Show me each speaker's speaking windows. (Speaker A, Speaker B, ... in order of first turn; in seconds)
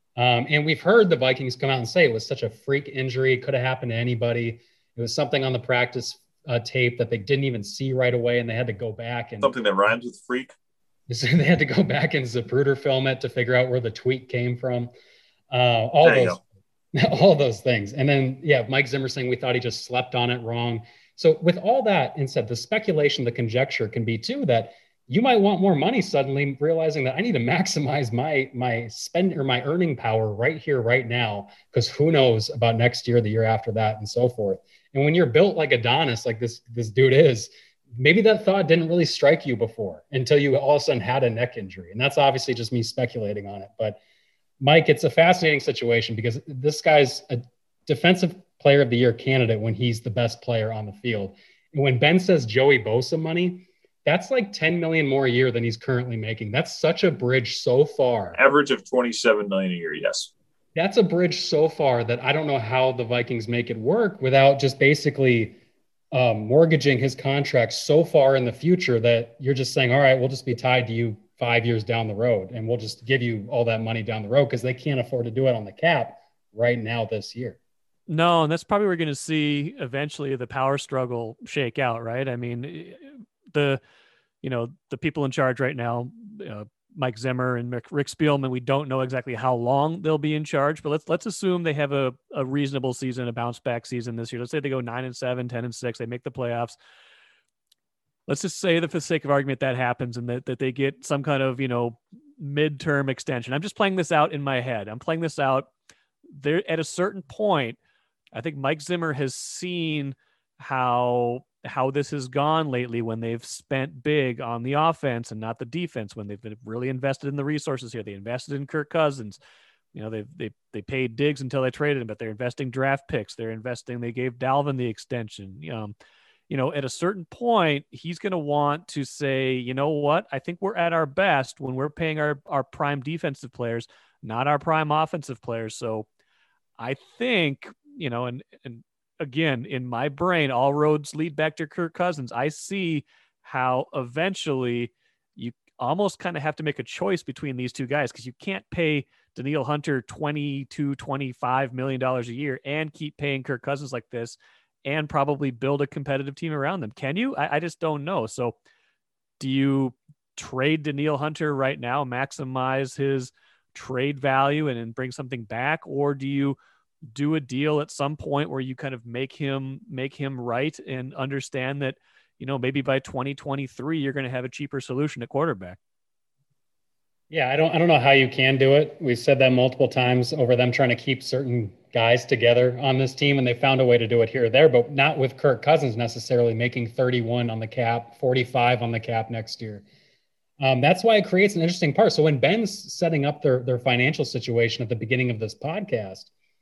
Speaker A: 0.2-9.5, 11.1-14.9, 15.5-16.4, 16.9-44.0, 44.6-58.4, 60.8-65.6, 66.1-77.6, 177.3-189.8, 190.6-196.3
Speaker B: 9.4-10.5, 16.0-16.4, 58.4-60.3
Speaker C: 78.1-83.8, 84.4-96.7, 98.3-105.7, 106.3-107.8, 108.3-119.4, 119.9-125.9, 126.5-136.1, 136.8-158.5, 159.4-166.6, 167.1-175.8